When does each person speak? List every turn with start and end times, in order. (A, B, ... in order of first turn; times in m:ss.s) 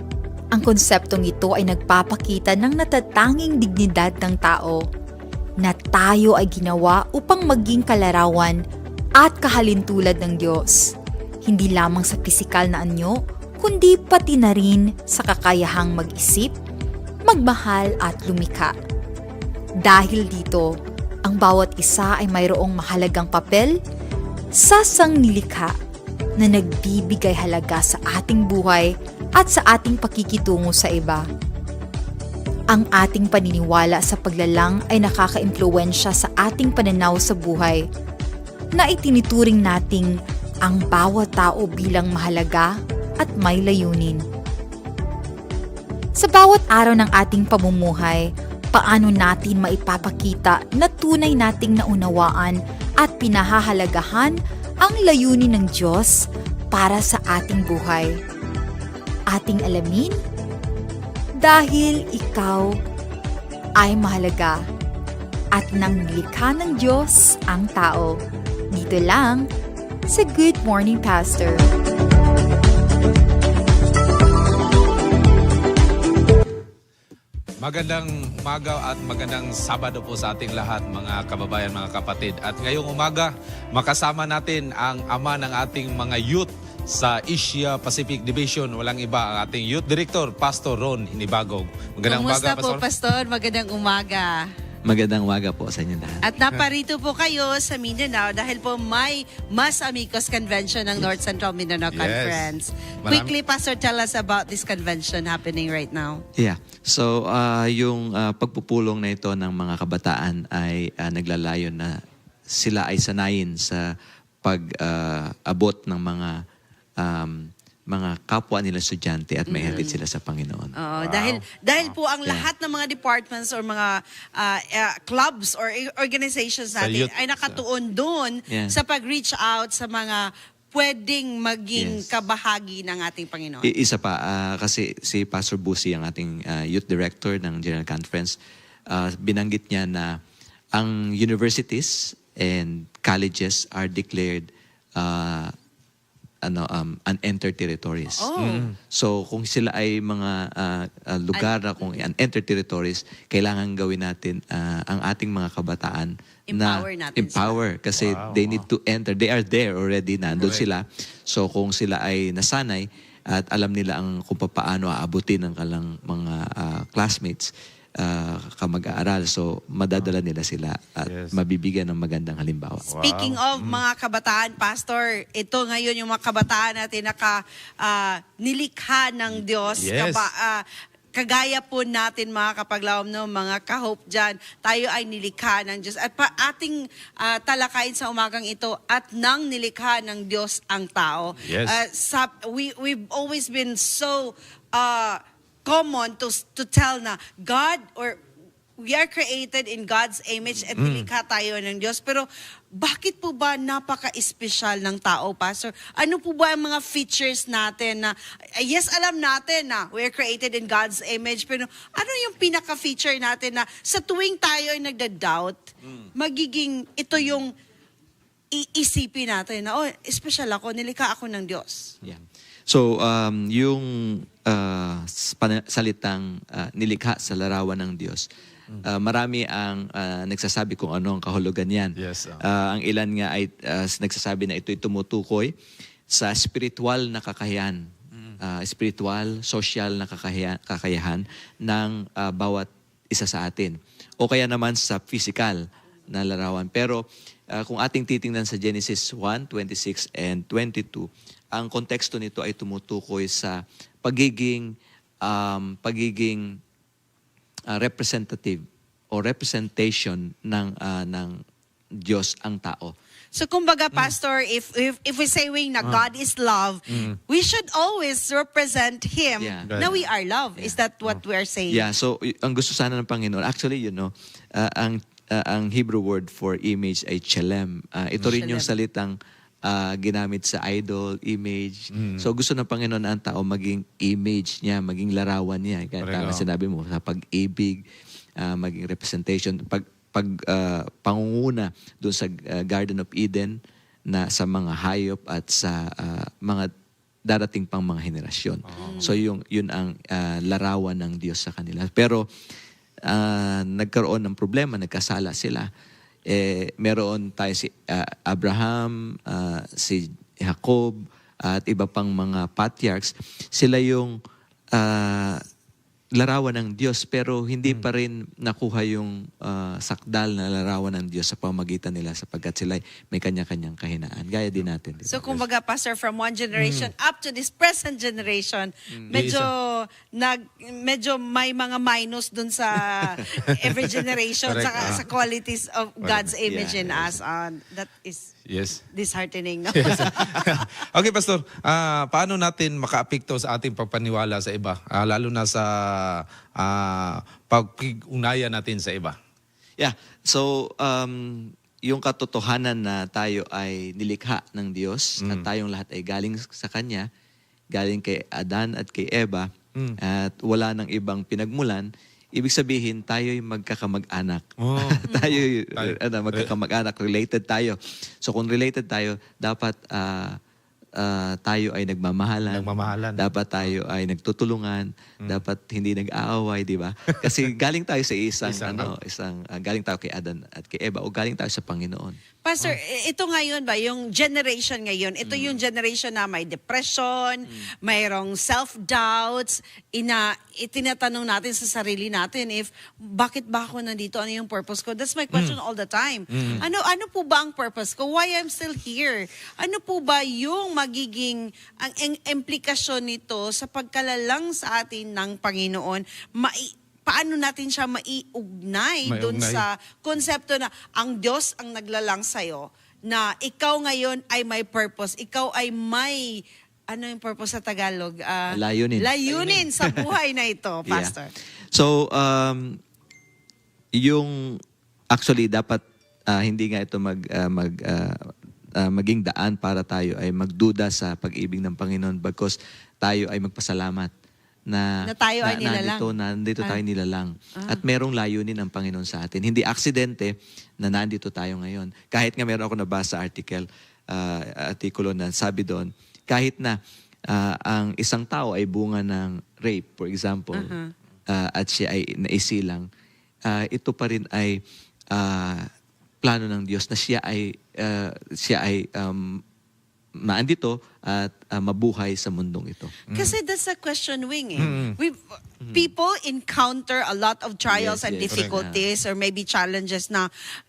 0:00.5-0:04.8 A
0:05.6-0:08.6 A
0:09.2-0:10.9 A
0:11.4-0:16.5 A
0:17.2-0:18.7 A
0:19.8-0:23.8 A
0:24.6-0:25.7 A
0:26.4-0:31.2 A
0:32.7-0:37.8 A
0:38.7-0:44.2 A
0:46.2-0:58.2 A
0:59.3-1:00.2 A
1:01.4-1:02.8 A
1:03.8-1:04.6 A
1:05.5-1:08.2 A
1:08.7-1:09.5 A
1:10.1-1:11.6 A
1:17.6-1:32.8 B
1:32.0-1:34.5 C
1:34.8-1:36.2 D
1:36.2-1:46.2 C
1:41.9-1:43.3 B
1:46.4-1:52.0 D
1:52.5-1:53.8 D
1:54.4-1:56.4 D
1:57.0-2:01.4 D
1:59.5-2:00.0 C
2:00.8-2:13.7 C
2:06.8-2:07.6 B
2:08.5-2:08.8 D
2:11.7-2:12.2 D
2:13.6-2:18.4 D
2:18.9-2:20.2 D
2:20.7-2:25.5 D
2:26.4-2:28.3 D
2:28.2-2:28.7 C
2:28.4-2:28.7 B
2:28.8-2:53.0 D
2:31.3-2:31.9 C
2:36.5-2:37.6 C
2:38.0-2:38.6 B
2:40.4-2:40.6 B
2:51.0-2:51.4 B
2:52.9-2:53.8 B
2:53.0-3:18.2 C
2:59.8-3:00.3 B
3:11.4-3:11.8 B
3:18.8-3:37.5 C
3:20.8-3:21.1 B
3:38.5-3:41.9 C
3:42.0-3:48.2 D
3:48.8-3:55.5 D
3:52.0-3:52.4 B
3:56.1-3:57.9 D
3:58.4-4:14.7 D
4:15.2-4:16.6 D
4:17.7-4:21.4 D
4:22.0-4:22.9 D
4:23.3-4:31.8 C
4:26.9-4:27.2 B
4:29.4-4:30.0 D
4:29.7-4:29.9 B
4:31.7-4:39.1 D
4:38.2-4:38.7 C
4:39.6-4:47.8 D
4:41.9-4:42.3 B
4:46.0-4:46.4 B
4:48.4-4:53.6 D
4:54.1-4:56.7 D
4:57.3-5:02.3 D
4:58.6-4:59.0 B
4:58.7-4:59.2 C
5:03.1-5:05.7 D
5:06.3-5:14.2 D
5:14.7-5:15.4 D
5:16.2-5:25.4 D
5:25.0-5:38.3 C
5:26.6-5:26.9 B
5:28.9-5:29.3 D
5:29.1-5:29.5 B
5:34.4-5:35.0 B
5:36.0-5:36.3 B
5:36.4-5:37.2 D
5:38.5-5:38.8 B
5:38.9-5:40.5 C
5:39.8-5:49.2 B
5:49.8-5:57.0 D
5:55.2-5:55.5 B
5:57.7-5:59.5 D
6:00.0-6:10.4 D
6:04.6-6:06.5 B
6:11.0-6:22.2 D
6:12.5-6:13.2 B
6:18.4-6:18.9 B
6:22.4-7:01.3 C
6:25.2-6:25.6 D
6:35.3-6:35.6 B
6:36.3-6:36.6 B
6:36.4-6:36.6 D
6:49.0-6:49.6 B
6:58.5-7:00.0 D
7:00.8-7:01.1 D
7:01.7-7:02.8 D
7:04.0-7:04.6 D
7:05.1-7:14.1 D
7:15.0-7:16.8 C
7:15.4-7:26.8 D
7:27.3-7:30.7 D
7:30.5-7:30.9 C
7:31.3-7:32.9 D
7:33.5-7:34.6 D
7:35.1-7:35.6 D
7:36.2-7:39.4 D
7:40.2-7:42.9 D
7:43.1-7:43.4 B
7:43.1-7:50.3 C
7:44.6-7:45.0 B
7:45.6-7:45.9 D
7:47.7-7:48.8 D
7:48.3-7:48.6 B